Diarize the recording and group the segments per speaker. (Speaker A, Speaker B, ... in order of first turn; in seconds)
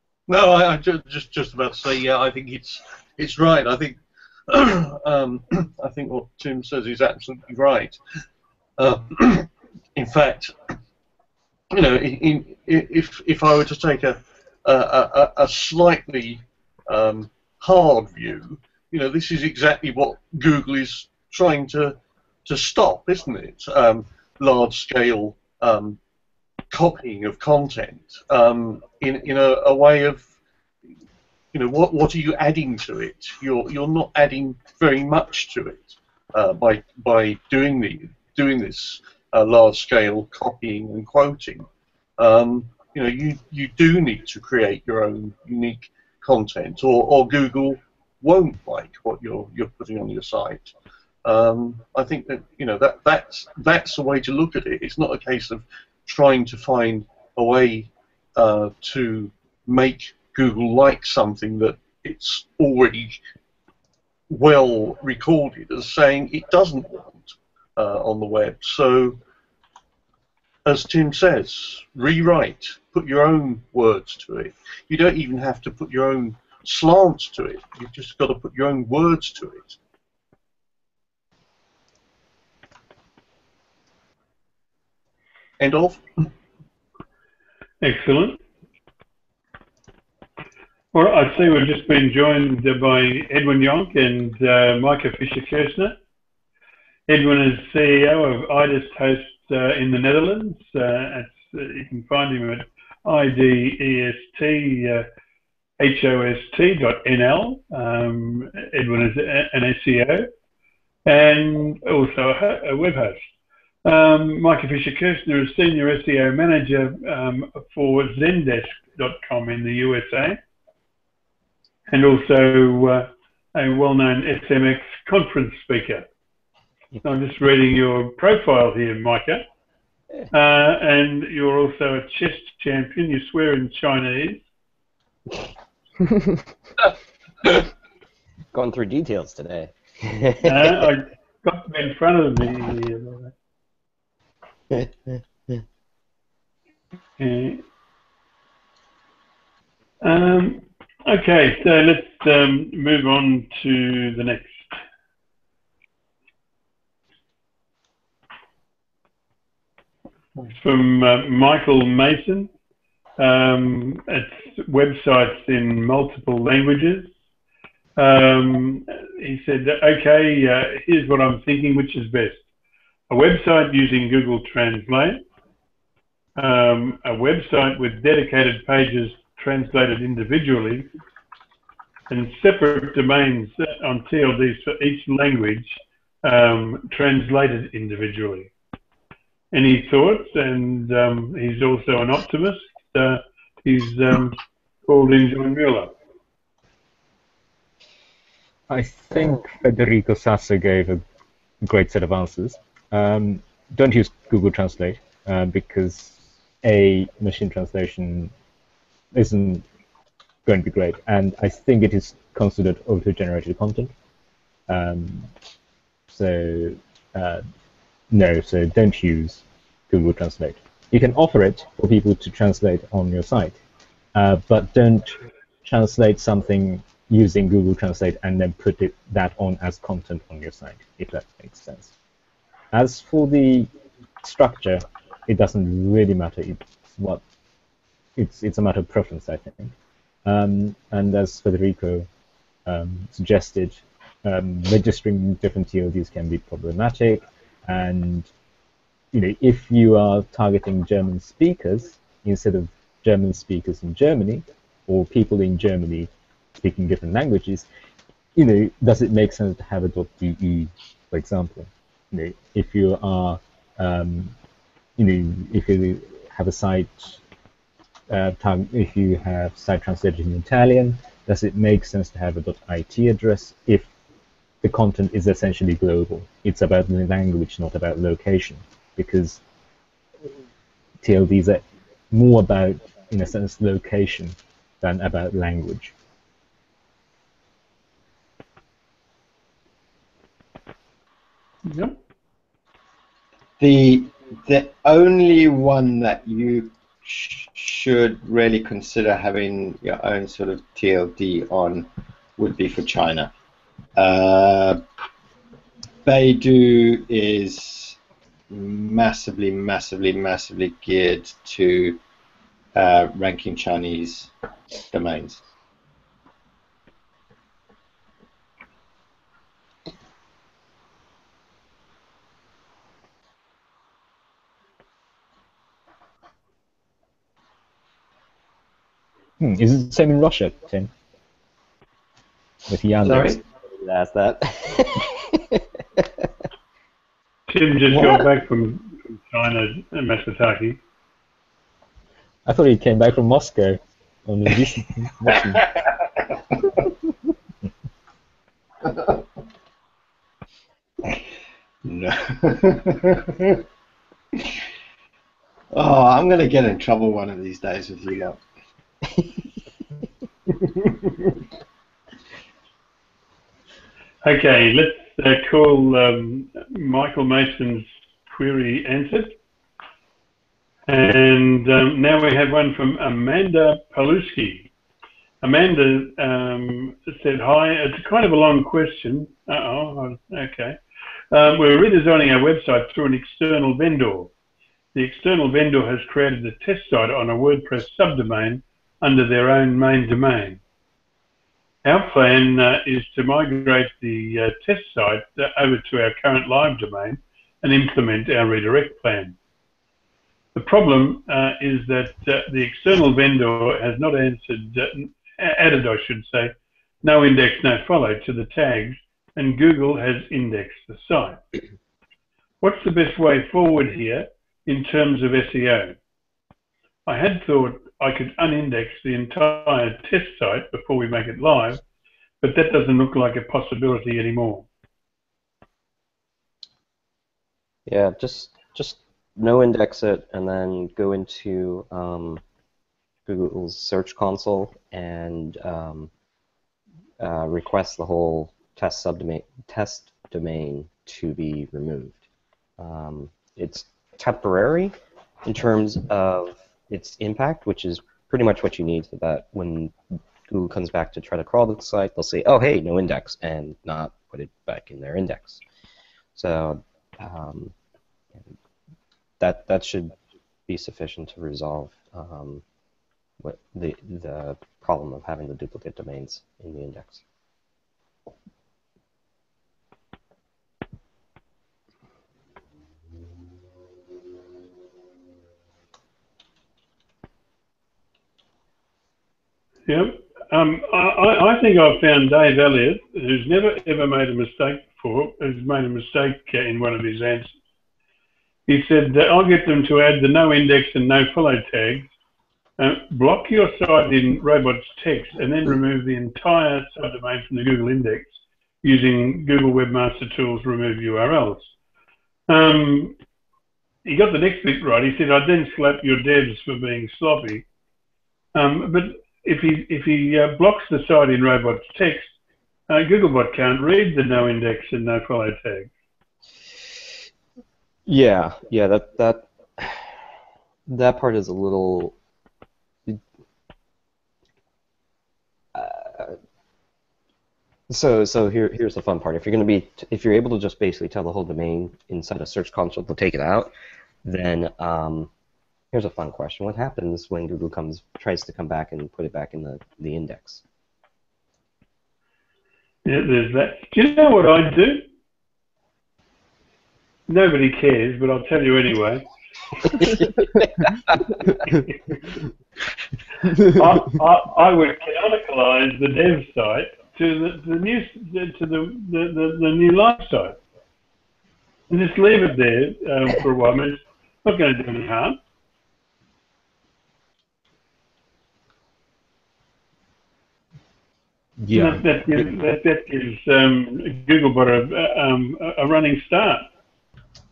Speaker A: 0.3-8.0, 8.8-10.5, 11.7-26.0, 26.7-30.2, 31.5-41.6, 42.2-50.7, 51.2-63.2, 64.3-69.2, 70.7-79.8, 85.6-86.3
Speaker B: 87.8-88.4, 90.9-95.9, 97.1-105.0, 105.8-110.3, 111.0-113.3, 113.8-120.4, 121.9-126.0, 127.0-129.4, 130.3-134.4, 140.4-143.3, 147.2-147.6, 150.0-154.8, 160.5-162.5, 163.2-167.1, 168.0-172.4, 173.1-175.2, 176.4-180.9, 182.1-188.5, 189.5-195.9, 291.6-292.0, 337.5-340.8, 364.2-369.4, 370.9-374.7, 375.4-380.8, 381.3-384.3, 384.9-390.6, 391.8-399.4, 400.5-406.5, 407.0-411.4, 412.6-416.0, 417.1-421.8, 422.4-424.6, 479.9-487.5, 488.7-492.1, 492.8-501.7, 502.5-503.1, 504.1-507.6, 508.5-512.3, 512.9-515.9, 543.0-545.0, 547.3-549.2, 553.7-560.6, 561.9-565.4, 571.7-576.6
Speaker C: 138.5-140.8, 333.8-335.1, 427.9-432.4, 433.3-436.1, 437.2-442.2, 442.8-449.9, 450.5-455.6, 456.3-457.7, 459.4-460.1, 460.7-462.6, 463.4-467.2, 518.1-520.2, 520.9-522.1, 525.7-526.4, 527.9-533.7, 534.2-535.3, 535.9-540.6, 549.9-551.4
Speaker D: 198.7-201.0, 201.6-208.3, 209.1-209.6, 210.4-213.9, 214.7-215.3, 216.1-217.4, 218.1-223.6, 224.1-231.9, 232.7-233.7, 234.2-237.2, 238.2-239.7, 240.2-242.1, 242.7-248.3, 249.1-257.6, 258.4-264.3, 265.0-267.2, 268.1-273.9, 274.6-279.4, 281.0-285.9, 329.4-330.9, 332.7-333.4, 342.4-345.8, 571.6-572.5
Speaker E: 293.6-303.3, 303.9-304.8, 306.0-308.0, 308.5-312.0, 312.7-314.3, 314.9-315.4, 333.0-333.4, 337.9-338.2, 348.9-349.2, 351.8-353.6, 355.7-358.4, 360.6-361.1